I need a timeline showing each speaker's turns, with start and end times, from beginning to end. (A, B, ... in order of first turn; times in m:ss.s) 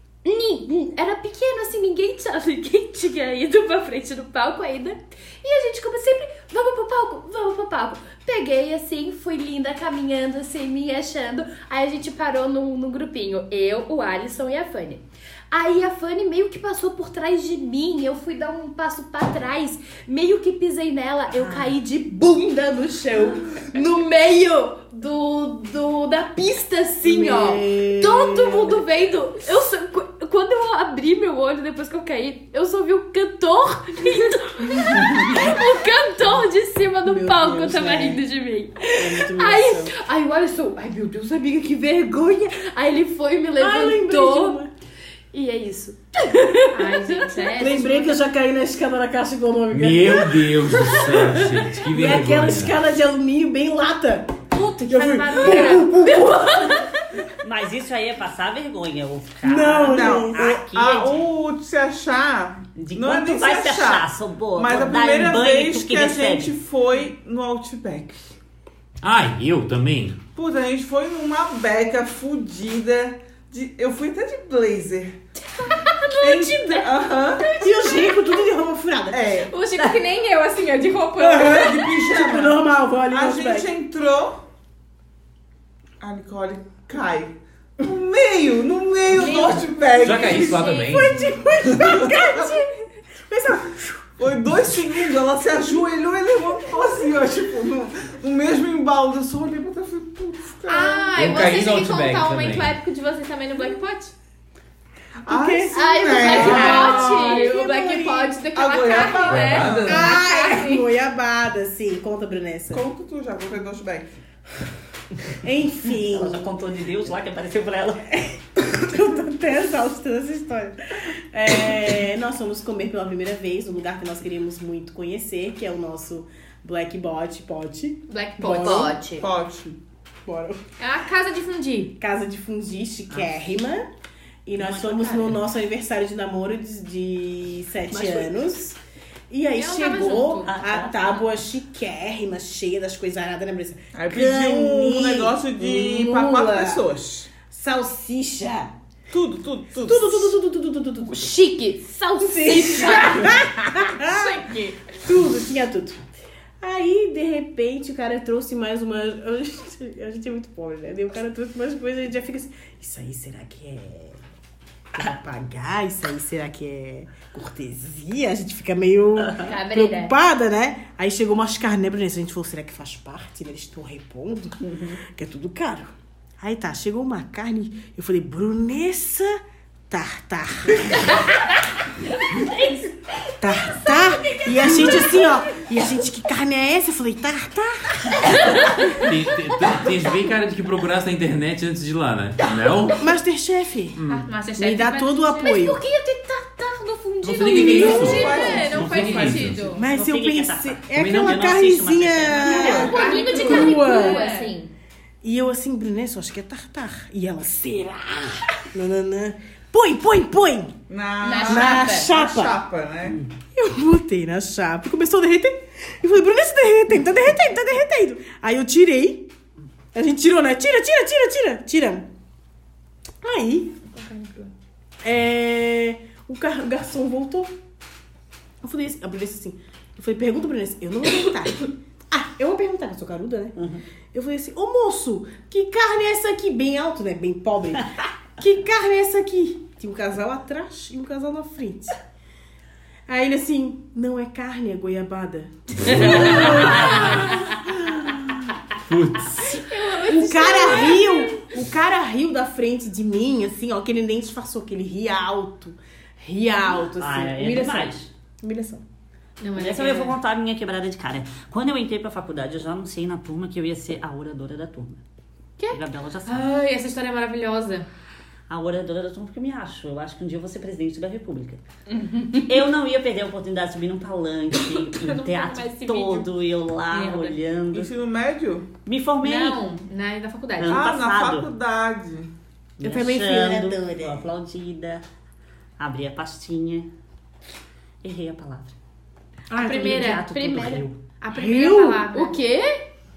0:00.2-0:44.6 A
0:21.3-0:21.7 B
0:22.8-0:23.6 C
0:27.0-0:28.8 C
0:35.2-0:35.5 C
0:37.0-0:38.2 C
0:38.9-0:40.0 C
0:43.6-0:44.7 C
0:45.3-0:47.5 A
0:46.7-0:48.2 D
0:47.6-0:56.4 C
0:49.7-0:52.8 E
0:54.5-0:55.9 D
0:55.3-0:56.9 A
0:57.4-1:01.3 B
0:59.4-1:00.5 C
0:59.8-1:08.3 F
1:02.8-1:06.5 B
1:09.0-1:10.2 E
1:10.3-1:15.2 F
1:15.6-1:17.6 A
1:16.2-1:17.5 F
1:17.6-1:19.2 C
1:19.1-1:19.5 F
1:19.4-1:21.9 D
1:21.2-1:24.4 F
1:21.5-1:23.7 C
1:26.0-1:30.7 F
1:29.2-1:29.7 D
1:30.0-1:31.2 E
1:30.2-1:31.1 D
1:30.8-1:34.2 C
1:31.7-1:32.3 F
1:34.2-1:41.2 F
1:40.7-1:44.1 D
1:41.1-1:42.8 E
1:45.2-1:47.6 F
1:45.3-1:48.4 C
1:45.7-1:50.9 D
1:45.8-1:47.4 A
1:48.5-1:50.2 F
1:49.3-1:50.0 E
1:49.8-1:52.8 C
1:52.7-1:54.1 F
1:55.4-1:56.5 C
1:55.9-1:58.2 B
1:58.6-2:08.9 C
2:08.1-2:08.9 D
2:08.5-2:09.3 A
2:09.1-2:09.8 F
2:10.2-2:10.6 C
2:10.8-2:11.9 D
2:12.0-2:13.9 C
2:14.4-2:18.8 C
2:14.6-2:15.4 B
2:19.3-2:26.8 C
2:19.6-2:20.5 D
2:20.4-2:21.2 B
2:23.9-2:27.3 F
2:27.4-2:28.7 C
2:29.1-2:30.3 F
2:29.8-2:31.3 C
2:31.0-2:33.3 A
2:32.2-2:36.0 C
2:32.8-2:33.4 D
2:33.9-2:34.8 D
2:36.6-2:44.2 C
2:44.9-2:59.4 C
2:49.4-2:50.1 D
2:54.6-2:55.0 B
2:59.9-3:01.2 C
3:02.4-3:03.3 B
3:03.4-3:08.2 C
3:03.9-3:05.4 B
3:08.9-3:13.0 E
3:13.0-3:14.0 C
3:13.9-3:14.3 E
3:14.1-3:15.5 D
3:14.6-3:15.8 C
3:15.4-3:18.7 A
3:17.2-3:19.7 E
3:17.4-3:19.7 F
3:17.5-3:19.8 D
3:19.7-3:24.3 C
3:19.8-3:23.2 B
3:21.0-3:21.3 E
3:22.4-3:24.7 A
3:22.4-3:24.5 D
3:22.5-3:23.5 F
3:25.2-3:30.8 C
3:30.9-3:33.2 F
3:31.2-3:32.0 A
3:31.2-3:32.0 D
3:31.3-3:32.6 C
3:33.5-3:39.3 C
3:39.9-3:42.1 C
3:43.2-3:43.7 C
3:43.9-3:44.5 D
3:45.0-3:47.5 C
3:48.6-3:53.6 C
3:53.6-3:53.8 B
3:54.1-4:02.0 C
4:03.1-4:07.2 C
4:05.9-4:07.3 B
4:05.9-4:07.4 E
4:08.7-4:09.7 E
4:09.4-4:11.5 D
4:10.0-4:18.8 C
4:17.0-4:18.1 B
4:19.4-4:20.2 D
4:19.6-4:25.0 B
4:25.6-4:27.9 D
4:25.7-4:26.5 B
4:28.5-4:31.6 B
4:31.9-4:32.5 D
4:32.4-4:37.9 B
4:34.6-4:36.3 D
4:36.9-4:37.4 D
4:37.7-4:38.7 F
4:38.8-4:39.6 B
4:39.2-4:40.8 D
4:40.6-4:41.5 B
4:40.7-4:42.3 F
4:42.8-4:45.0 B
4:42.8-4:44.2 C
4:45.8-4:46.9 B
4:48.0-4:48.7 B
4:49.5-4:50.1 C
4:49.5-4:50.2 D
4:49.7-4:51.0 B
4:49.8-4:50.8 A
4:51.2-4:52.8 D
4:51.3-4:52.2 C